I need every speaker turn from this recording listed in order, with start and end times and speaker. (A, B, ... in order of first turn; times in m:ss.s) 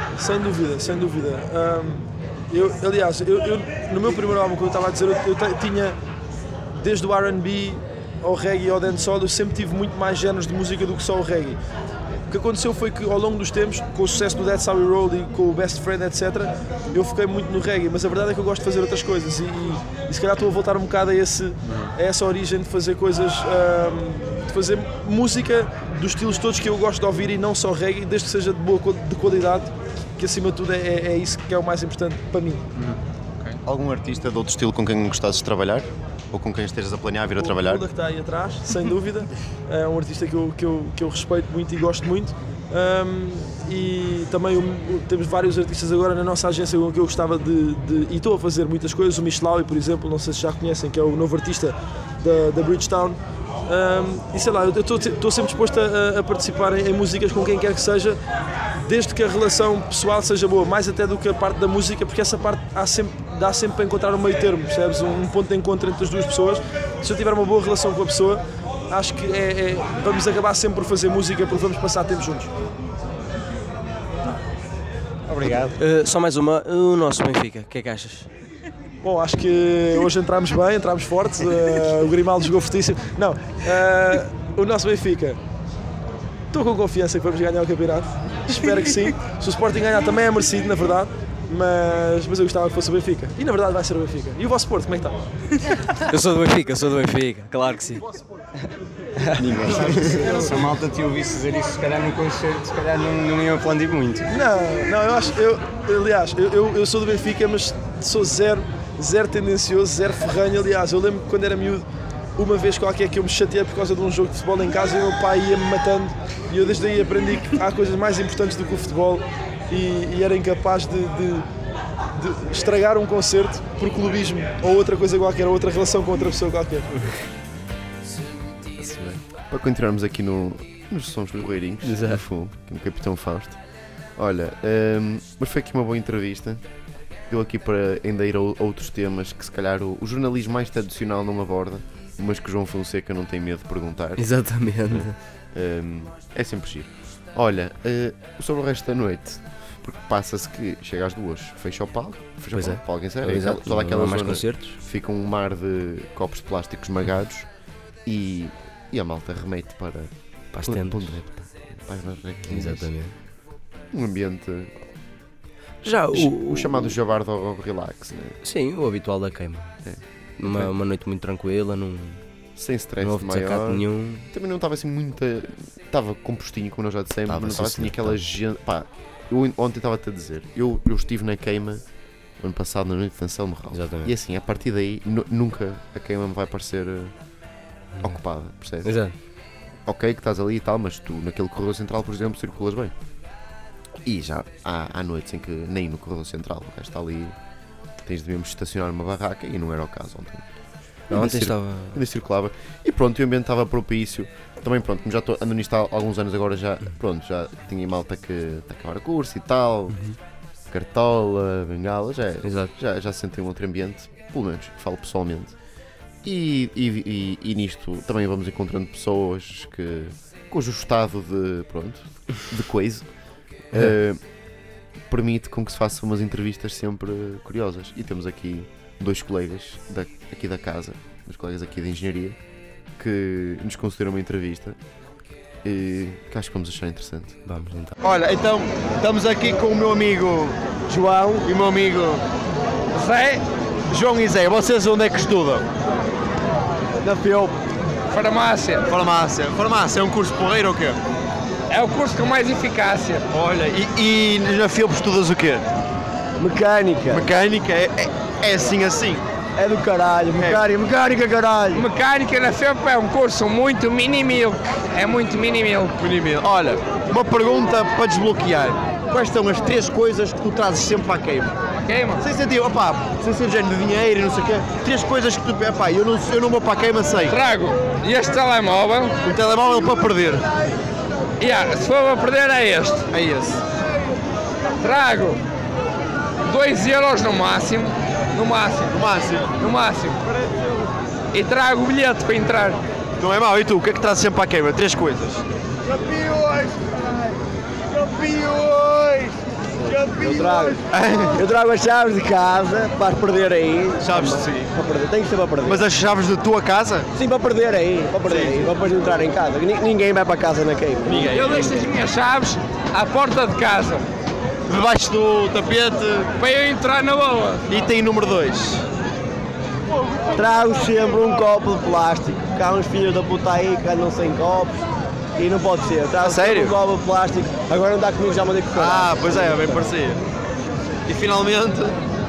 0:00.1-0:05.9 A
0:06.7-0:11.6 A
0:12.3-0:32.6 A
0:32.8-0:33.6 B
0:33.6-0:37.8 C
0:37.4-0:58.2 A
0:58.8-1:12.5 A
1:15.3-1:15.7 B
1:15.5-1:18.3 D
1:19.0-1:25.4 A
1:26.5-1:35.2 A
1:35.9-1:38.0 D
1:39.4-1:40.4 C
1:40.2-1:44.2 B
1:44.3-1:51.8 A
1:52.4-2:01.4 A
2:02.2-2:06.9 A
2:08.8-2:13.6 C
2:11.8-2:12.2 D
2:14.2-2:16.6 C
2:17.3-2:24.3 C
2:24.2-2:25.1 D
2:24.9-2:37.5 C
2:32.5-2:34.8 D
2:38.0-2:40.1 C
2:40.5-2:41.1 D
2:40.6-2:42.9 C
2:42.5-2:43.1 D
2:43.9-2:44.7 C
2:45.8-2:47.0 D
2:46.1-2:48.4 C
2:48.4-2:49.7 D
2:49.8-2:50.7 C
2:50.4-2:52.2 D
2:52.6-3:01.8 C
2:53.0-2:54.3 D
2:57.3-2:58.2 D
3:02.4-3:07.1 C
3:03.7-3:04.1 D
3:08.0-3:08.9 C
3:08.8-3:09.1 D
3:09.8-3:12.9 C
3:14.0-3:17.3 C
3:18.0-3:20.4 C
3:21.1-3:30.0 C
3:21.1-3:22.0 D
3:30.7-3:35.6 C
3:32.4-3:32.7 D
3:36.2-3:43.0 C
3:43.7-3:44.2 C
3:45.1-3:52.4 C
3:53.0-3:54.8 C
3:55.6-3:57.4 C
3:57.4-3:58.0 D
3:58.0-4:00.6 E
4:00.9-4:01.5 F
4:01.4-4:02.2 E
4:02.9-4:03.4 G
4:03.9-4:05.6 E
4:07.0-4:07.6 F
4:08.1-4:08.9 G
4:08.9-4:11.0 E
4:11.7-4:13.3 G
4:13.3-4:15.6 E
4:16.4-4:17.3 F
4:17.1-4:19.2 E
4:19.6-4:21.9 F
4:20.3-4:20.6 E
4:21.7-4:26.0 G
4:26.0-4:31.5 E
4:31.8-4:32.2 G
4:32.2-4:37.4 E
4:37.3-4:39.2 G
4:39.2-4:40.4 E
4:41.4-4:43.1 G
4:43.1-4:43.6 E
4:44.8-4:45.4 G
4:46.4-4:49.0 G
4:48.9-4:49.6 E
4:49.5-4:50.2 G
4:51.3-4:52.8 G
4:53.2-4:55.4 E
4:56.1-4:56.7 E
4:58.1-4:59.3 E
4:59.8-5:05.8 F
4:59.9-5:01.4 E
5:04.0-5:04.7 E
5:05.7-5:07.1 E
5:07.1-5:11.9 F
5:08.2-5:08.7 E
5:11.0-5:11.4 E
5:11.3-5:14.0 G
5:14.7-5:16.3 E
5:16.3-5:17.7 G
5:17.7-5:18.8 E
5:20.3-5:29.9 F
5:26.2-5:26.8 E
5:28.8-5:30.2 E
5:31.0-5:32.0 E